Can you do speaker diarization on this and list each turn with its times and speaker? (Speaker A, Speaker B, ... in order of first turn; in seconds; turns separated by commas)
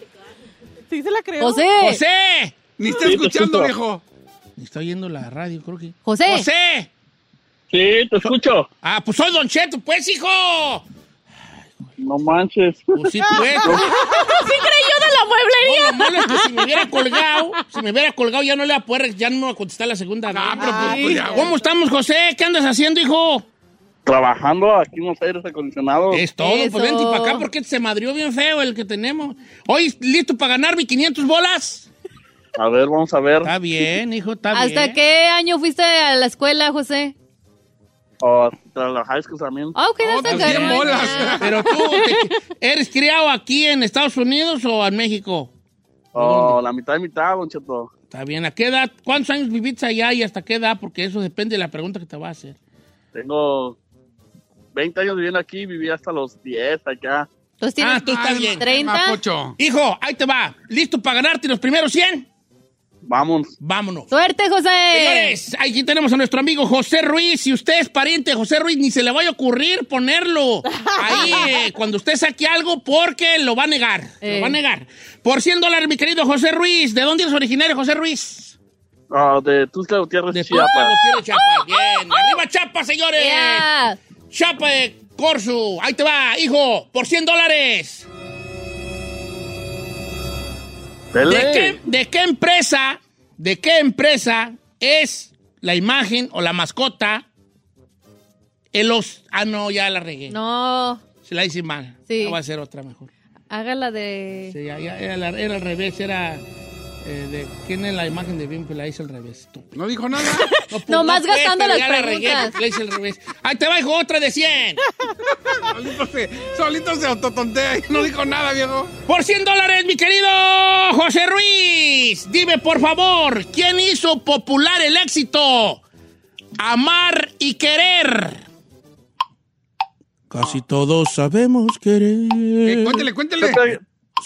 Speaker A: 0.9-1.7, Speaker B: 1.4-2.0, Speaker C: 1.8-2.6, Speaker D: 2.8-4.0, Speaker E: 3.0-3.7, Speaker C: 4.6-6.9, Speaker B: 6.0-6.5, Speaker E: 7.7-8.7, Speaker C: 8.2-10.8, Speaker E: 12.0-13.0, Speaker C: 12.9-13.9, Speaker A: 13.4-14.2, Speaker E: 13.6-13.9, Speaker B: 13.9-16.5, Speaker C: 15.6-23.4, Speaker D: 20.3-21.5, Speaker A: 20.6-21.5, Speaker E: 24.0-26.2, Speaker C: 26.1-31.9, Speaker B: 26.4-27.4, Speaker E: 32.6-33.5, Speaker C: 33.4-35.0, Speaker B: 34.5-37.1, Speaker E: 38.2-39.7, Speaker B: 39.7-42.3, Speaker D: 40.0-41.6, Speaker C: 40.2-45.5, Speaker C: 46.1-46.6, Speaker E: 46.1-47.9, Speaker C: 48.1-52.5, Speaker E: 53.1-53.8, Speaker E: 54.7-57.3, Speaker B: 57.6-59.2, Speaker C: 57.8-58.6, Speaker D: 58.0-59.6, Speaker C: 59.6-62.3, Speaker E: 63.0-63.5, Speaker C: 63.6-64.1, Speaker B: 64.1-65.4, Speaker C: 64.9-78.5, Speaker A: 70.7-71.6, Speaker B: 74.2-74.6, Speaker E: 79.1-80.9, Speaker C: 80.3-83.7, Speaker B: 81.3-82.4, Speaker B: 83.1-84.0, Speaker C: 84.3-88.1, Speaker E: 91.1-91.8, Speaker C: 91.2-97.2, Speaker C: 98.7-100.3, Speaker B: 100.3-101.0, Speaker C: 101.2-103.1, Speaker B: 102.1-102.4, Speaker B: 103.5-104.5, Speaker C: 104.5-106.4, Speaker C: 107.0-109.7, Speaker D: 109.7-110.5, Speaker B: 110.2-112.5, Speaker C: 110.5-114.8, Speaker D: 115.5-118.9, Speaker C: 119.1-125.8, Speaker C: 126.6-128.4, Speaker C: 130.3-133.1, Speaker D: 132.6-133.6, Speaker E: 133.4-133.8